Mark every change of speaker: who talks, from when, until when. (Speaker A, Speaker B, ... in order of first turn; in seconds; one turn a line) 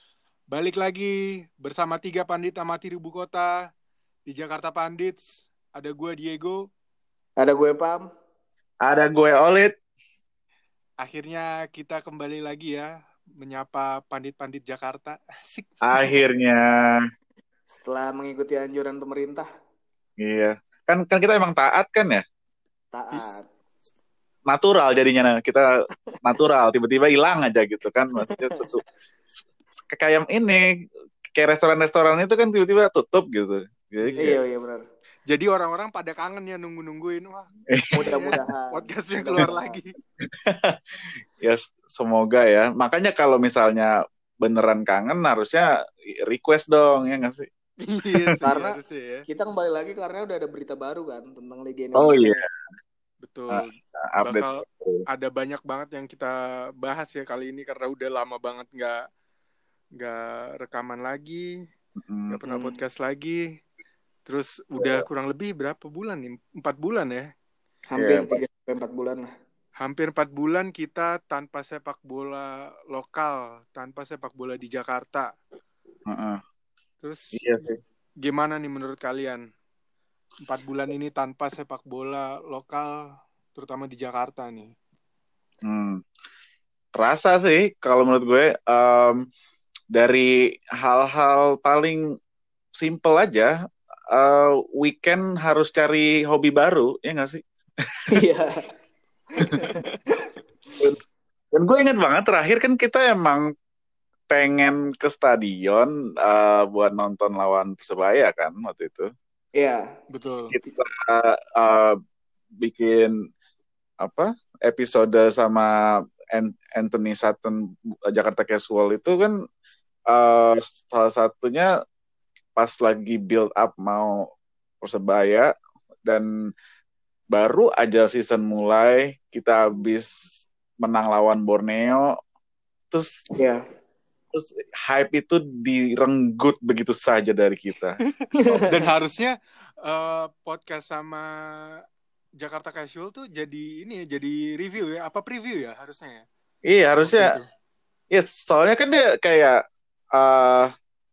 Speaker A: 0.5-3.6
Speaker A: 4.3-6.6
Speaker B: 7.4-8.1
Speaker C: 8.8-9.7
Speaker A: 11.0-16.1
Speaker C: 15.8-17.0
Speaker B: 17.7-19.5
Speaker C: 20.2-22.2
Speaker B: 22.9-23.4
Speaker A: 23.1-23.4
Speaker C: 24.5-30.6
Speaker B: 28.2-28.6
Speaker C: 31.3-34.4
Speaker A: 34.0-34.4
Speaker B: 34.2-34.8
Speaker A: 35.3-39.9
Speaker C: 37.7-38.3
Speaker B: 38.0-39.8
Speaker C: 40.3-40.8
Speaker C: 41.4-47.5
Speaker A: 47.8-49.2
Speaker B: 48.4-52.4
Speaker C: 52.0-52.5
Speaker A: 53.2-59.0
Speaker C: 53.5-55.0
Speaker A: 60.0-61.5
Speaker C: 62.0-62.4
Speaker A: 62.3-63.4
Speaker A: 64.3-67.3
Speaker C: 64.8-65.0
Speaker B: 67.9-69.3
Speaker C: 68.0-68.4
Speaker A: 69.8-75.3
Speaker C: 76.1-76.4
Speaker A: 77.0-77.4
Speaker C: 77.3-77.8
Speaker A: 78.2-79.4
Speaker A: 80.5-83.0
Speaker A: 83.5-84.7
Speaker C: 85.6-86.0
Speaker C: 87.0-89.2
Speaker C: 89.9-92.1
Speaker C: 92.8-93.5
Speaker C: 94.1-97.4
Speaker B: 98.1-98.5
Speaker B: 99.4-99.8
Speaker C: 101.5-103.5
Speaker C: 104.3-109.1
Speaker B: 109.5-109.9
Speaker A: 110.1-110.5
Speaker C: 110.5-112.0
Speaker C: 112.6-113.1
Speaker C: 114.0-115.7
Speaker C: 116.3-119.3
Speaker C: 120.1-121.7
Speaker C: 122.5-124.3
Speaker C: 124.8-125.5
Speaker C: 127.3-132.1
Speaker C: 134.3-138.0
Speaker A: 138.2-141.8
Speaker B: 138.3-138.9
Speaker A: 142.4-146.2
Speaker C: 146.7-147.3
Speaker A: 147.0-147.4
Speaker C: 148.1-149.6
Speaker C: 150.1-150.7